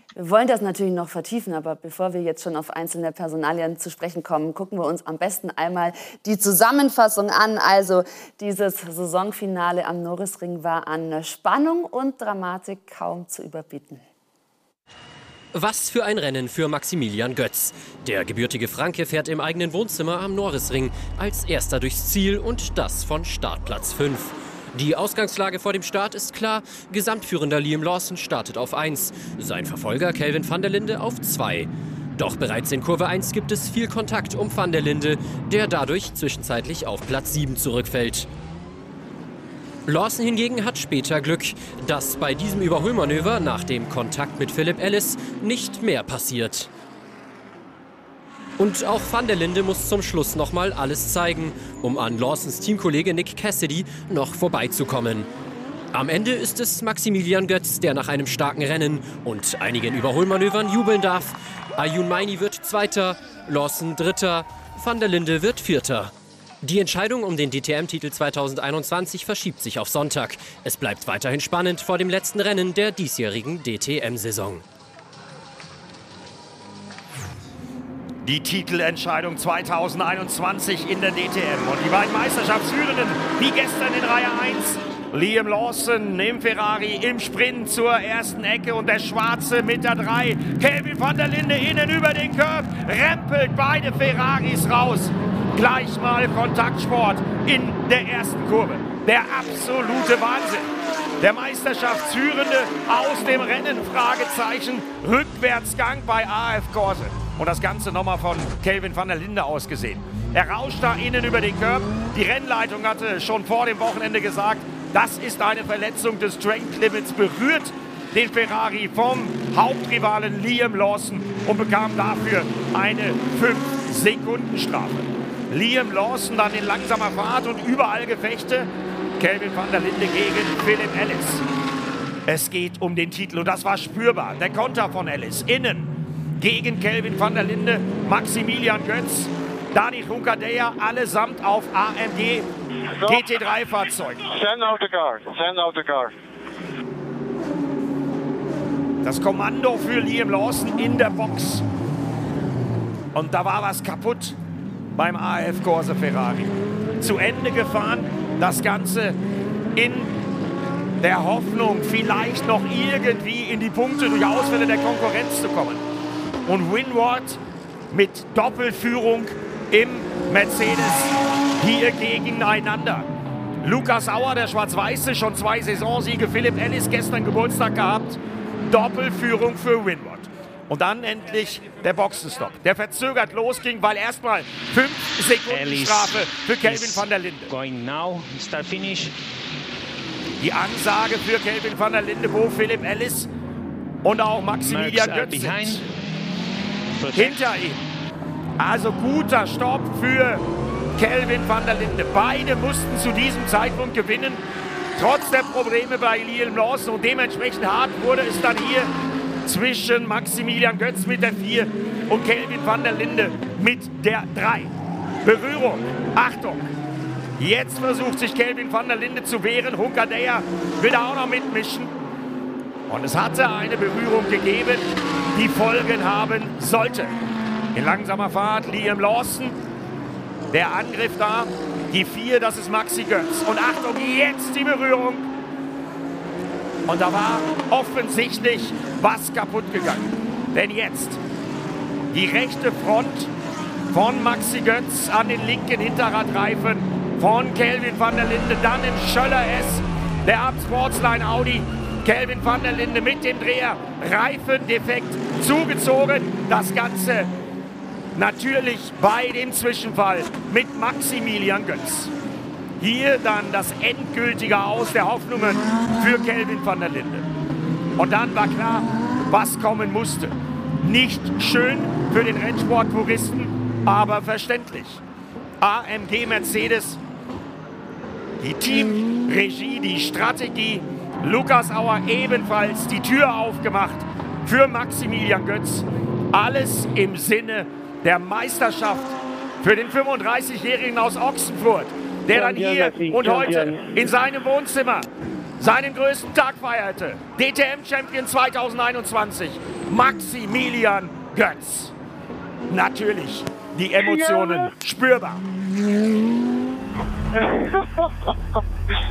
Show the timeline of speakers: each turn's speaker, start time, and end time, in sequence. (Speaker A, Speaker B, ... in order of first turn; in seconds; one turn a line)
Speaker A: 0.1-14.0
Speaker B: 15.5-38.3
Speaker B: 39.9-46.7
Speaker B: 48.6-55.3
Speaker B: 55.9-74.6
Speaker C: 78.2-131.4
Speaker C: 132.2-142.5
Speaker D: 142.9-143.3
Speaker C: 143.1-144.2
Speaker D: 144.2-146.1
Speaker C: 149.0-151.6
Speaker C: 153.1-154.3
Speaker C: 154.9-159.2
Speaker C: 159.7-160.1
Speaker C: 161.0-165.8
Speaker C: 166.4-167.4
Speaker C: 167.9-173.1
Speaker C: 173.6-187.5
Speaker E: 185.4-189.1
Speaker C: 190.4-193.3
Speaker C: 194.0-195.8
Speaker E: 194.6-195.8
Speaker E: 197.0-197.4
Speaker C: 197.1-197.8
Speaker C: 198.6-200.4
Speaker C: 200.9-204.4
Speaker C: 204.9-208.9
Speaker C: 209.4-214.7
Speaker C: 215.2-216.6
Speaker C: 217.4-221.9
Speaker C: 222.9-227.2
Speaker C: 227.7-229.6
Speaker C: 230.5-235.2
Speaker C: 236.9-241.2
Speaker C: 242.1-243.3
Speaker C: 243.9-257.3
Speaker C: 258.1-262.1
Speaker C: 262.8-267.3
Speaker C: 268.0-275.0
Speaker C: 275.6-277.0
Speaker C: 278.4-295.1
Speaker D: 292.3-294.2
Speaker C: 295.6-301.9
Speaker C: 302.7-305.4
Speaker D: 304.0-304.7
Speaker D: 307.3-308.3